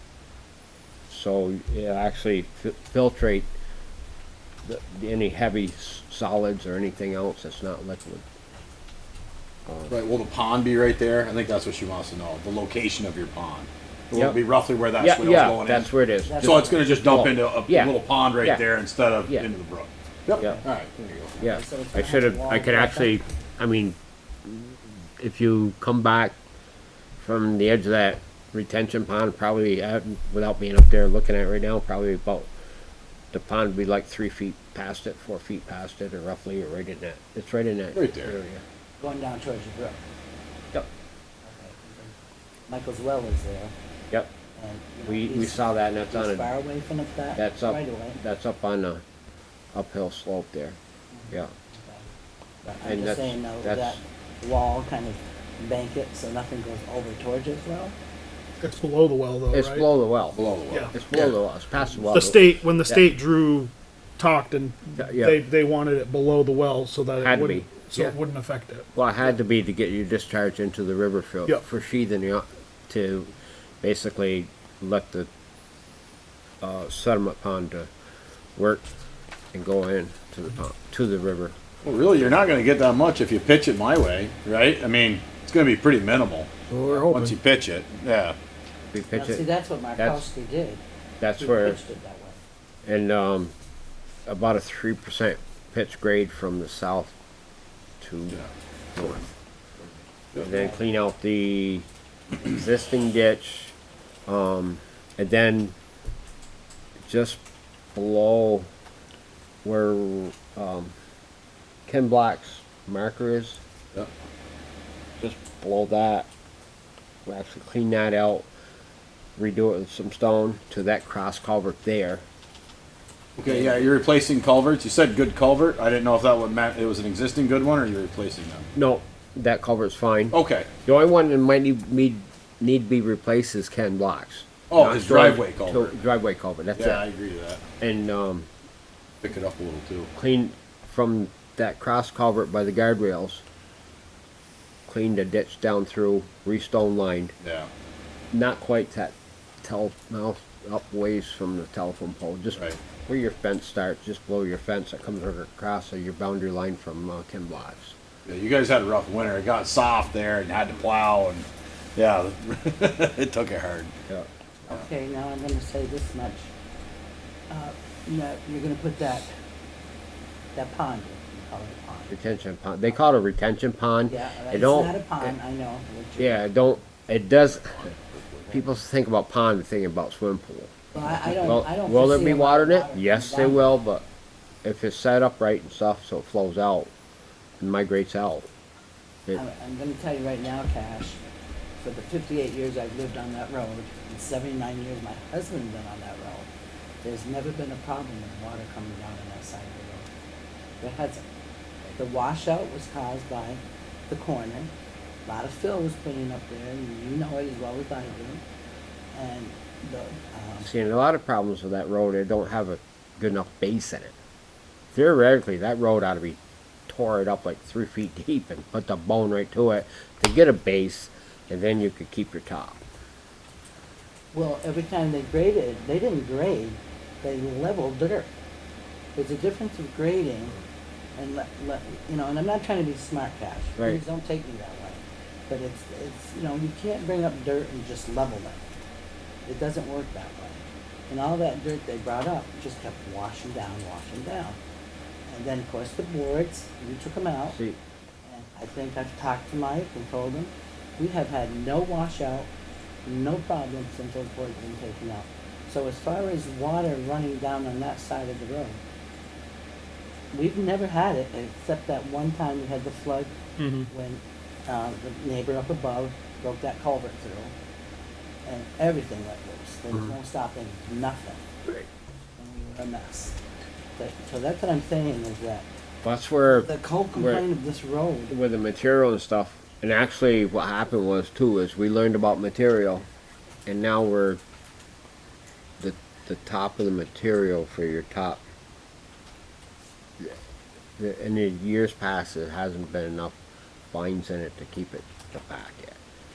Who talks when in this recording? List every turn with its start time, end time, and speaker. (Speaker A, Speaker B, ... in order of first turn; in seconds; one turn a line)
Speaker A: 1.1-3.5
Speaker A: 4.6-8.2
Speaker A: 9.7-9.9
Speaker B: 9.9-15.9
Speaker A: 14.1-14.4
Speaker A: 15.0-18.6
Speaker C: 16.2-17.0
Speaker B: 16.4-21.3
Speaker C: 20.4-20.6
Speaker C: 21.4-23.1
Speaker A: 21.4-26.3
Speaker A: 27.2-32.5
Speaker A: 33.3-38.6
Speaker B: 37.9-38.4
Speaker C: 39.0-40.0
Speaker C: 41.4-42.1
Speaker C: 42.7-43.7
Speaker C: 44.5-48.2
Speaker A: 45.0-46.5
Speaker A: 47.4-49.0
Speaker A: 49.7-50.8
Speaker C: 51.1-52.1
Speaker C: 52.6-57.9
Speaker A: 52.8-54.0
Speaker D: 58.6-59.9
Speaker A: 59.5-60.4
Speaker B: 60.3-61.2
Speaker A: 60.9-63.0
Speaker D: 62.1-68.9
Speaker A: 65.0-65.4
Speaker A: 67.2-68.1
Speaker A: 68.9-75.3
Speaker A: 76.6-77.9
Speaker A: 78.5-78.8
Speaker A: 79.5-81.5
Speaker B: 81.8-88.4
Speaker A: 86.7-87.3
Speaker A: 88.9-89.5
Speaker C: 89.1-90.8
Speaker A: 90.0-90.3
Speaker A: 91.2-91.8
Speaker C: 91.4-92.4
Speaker A: 92.8-93.5
Speaker A: 94.2-97.1
Speaker A: 98.0-99.3
Speaker A: 100.3-101.8
Speaker C: 100.4-100.8
Speaker A: 102.4-103.7
Speaker A: 104.3-105.8
Speaker A: 107.0-107.4
Speaker A: 107.9-108.7
Speaker A: 109.6-110.9
Speaker A: 111.9-113.6
Speaker A: 115.2-116.3
Speaker A: 117.2-118.5
Speaker A: 119.4-122.2
Speaker B: 123.4-128.7
Speaker A: 123.5-123.9
Speaker A: 128.7-137.0
Speaker B: 130.3-130.7
Speaker B: 134.7-136.0
Speaker B: 136.8-137.6
Speaker A: 137.8-138.5
Speaker B: 139.2-140.1
Speaker A: 140.1-143.4
Speaker A: 144.9-147.3
Speaker B: 147.4-147.7
Speaker A: 148.3-157.9
Speaker B: 158.2-163.9
Speaker C: 164.7-166.5
Speaker C: 167.5-169.3
Speaker C: 170.5-172.2
Speaker A: 172.1-175.3
Speaker C: 174.1-176.4
Speaker A: 176.2-177.9
Speaker B: 177.9-178.5
Speaker A: 178.5-180.7
Speaker C: 180.9-183.7
Speaker A: 181.2-184.1
Speaker A: 184.6-186.9
Speaker A: 187.6-188.5
Speaker C: 189.3-191.2
Speaker C: 191.8-196.5
Speaker C: 197.0-200.1
Speaker C: 200.8-201.2
Speaker C: 201.9-204.7
Speaker C: 205.2-208.4
Speaker C: 209.1-210.7
Speaker A: 210.6-214.2
Speaker A: 214.9-222.8
Speaker C: 224.3-228.3
Speaker C: 229.2-230.6
Speaker C: 231.2-238.6
Speaker C: 239.4-244.6
Speaker C: 245.3-247.6
Speaker A: 247.5-247.8
Speaker C: 248.2-252.5
Speaker C: 253.1-258.8
Speaker C: 260.3-263.3
Speaker D: 263.6-263.9
Speaker C: 263.9-267.5
Speaker C: 268.4-271.4
Speaker C: 272.4-273.4
Speaker C: 273.9-275.7
Speaker A: 276.0-277.4
Speaker C: 276.5-278.3
Speaker A: 278.3-283.1
Speaker A: 283.6-284.4
Speaker A: 285.8-288.4
Speaker A: 291.0-293.4
Speaker A: 293.9-296.0